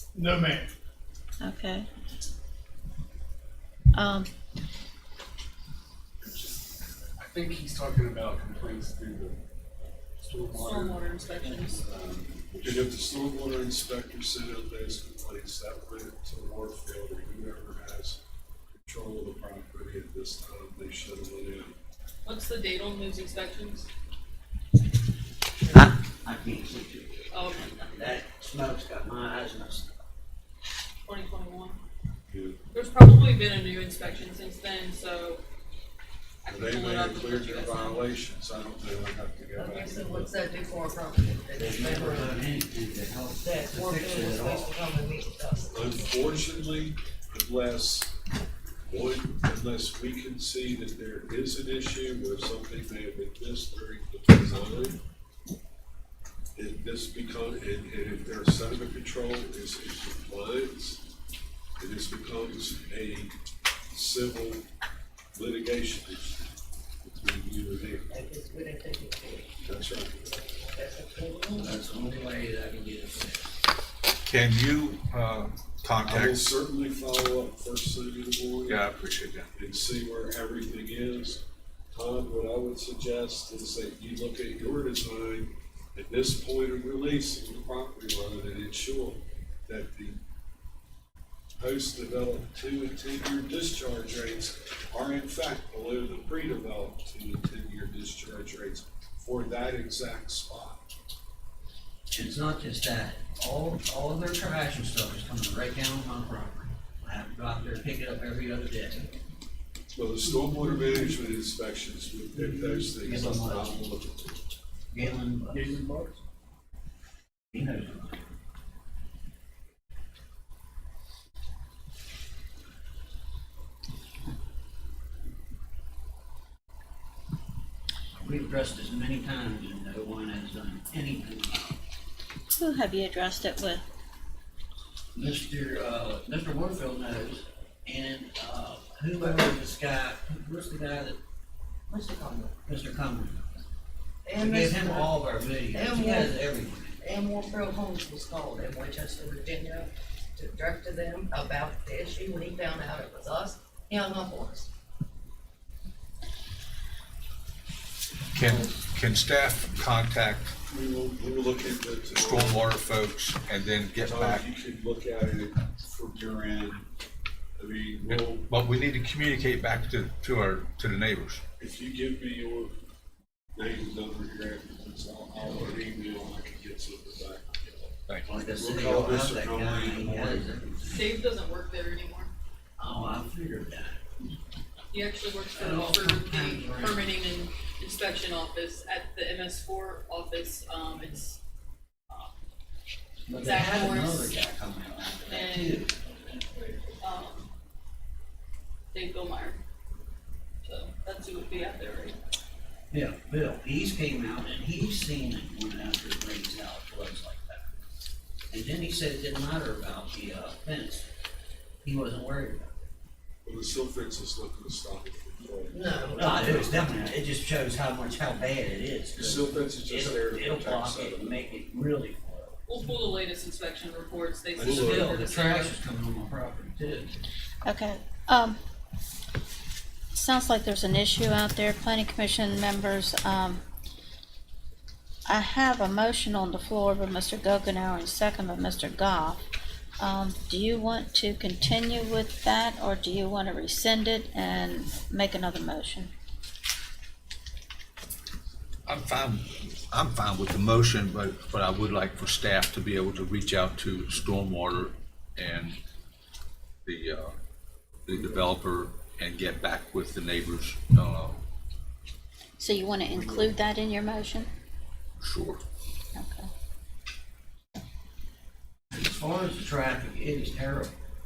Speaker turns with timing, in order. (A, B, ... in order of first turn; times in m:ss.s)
0:01.4-0:01.9 A
0:03.9-0:04.3 A
0:06.2-0:06.5 B
0:07.2-0:09.4 B
0:10.2-0:12.9 B
0:10.5-0:11.8 C
0:12.6-0:18.2 D
0:18.7-0:21.8 D
0:22.2-0:23.9 C
0:25.6-0:30.0 E
0:27.3-0:27.7 C
0:31.0-0:31.8 C
0:32.3-0:32.6 D
0:32.7-0:35.4 C
0:36.4-0:38.0 C
0:36.5-0:40.3 D
0:39.6-0:42.4 F
0:41.5-0:44.7 E
0:43.4-0:46.3 F
0:45.7-0:48.1 D
0:48.8-0:55.0 D
0:56.6-1:01.0 D
1:01.8-1:03.3 D
1:03.9-1:04.6 D
1:05.3-1:06.4 D
1:07.0-1:08.1 D
1:08.1-1:09.5 F
1:09.6-1:10.2 D
1:10.2-1:11.7 F
1:11.6-1:13.4 E
1:14.2-1:16.6 G
1:16.0-1:18.9 D
1:18.6-1:19.5 G
1:19.5-1:21.4 D
1:21.9-1:30.2 D
1:31.6-1:40.9 D
1:42.1-1:49.0 E
1:49.9-1:54.4 D
1:53.0-1:53.8 E
1:54.9-1:55.8 E
1:55.6-1:56.2 B
1:57.5-1:58.3 E
2:08.2-2:11.8 E
2:12.5-2:13.8 A
2:15.1-2:21.2 E
2:21.9-2:22.5 F
2:22.6-2:23.4 E
2:24.2-2:26.4 F
2:24.4-2:27.0 E
2:27.0-2:34.7 F
2:38.3-2:40.5 G
2:40.7-2:42.7 D
2:42.1-2:44.4 G
2:44.0-2:46.8 D
2:47.6-2:48.5 D
2:48.1-2:51.4 G
2:51.6-2:52.7 D
2:53.5-2:57.9 D
2:58.2-3:01.0 E
2:58.5-3:00.5 D
3:00.9-3:02.3 C
3:02.8-3:04.2 E
3:04.9-3:11.4 C
3:05.5-3:07.1 E
3:13.3-3:15.9 E
3:13.4-3:14.4 C
3:15.3-3:15.9 C
3:17.0-3:17.5 C
3:18.9-3:19.6 C
3:20.6-3:22.2 C
3:22.9-3:27.7 E
3:28.5-3:31.1 E
3:31.8-3:32.9 E
3:33.4-3:36.8 D
3:35.7-3:36.6 F
3:36.2-3:42.6 E
3:39.2-3:41.5 D
3:42.7-3:45.7 C
3:44.6-3:45.1 D
3:44.6-3:47.2 E
3:47.6-3:48.6 A
3:50.1-3:53.6 A
3:55.3-3:59.4 A
4:00.0-4:06.1 A
4:08.8-4:15.8 G
4:16.8-4:17.3 G
4:18.1-4:21.4 G
4:18.1-4:18.4 D
4:22.6-4:24.5 A
4:23.1-4:23.4 D
4:25.2-4:25.6 G
4:26.1-4:26.5 A
4:28.9-4:30.9 E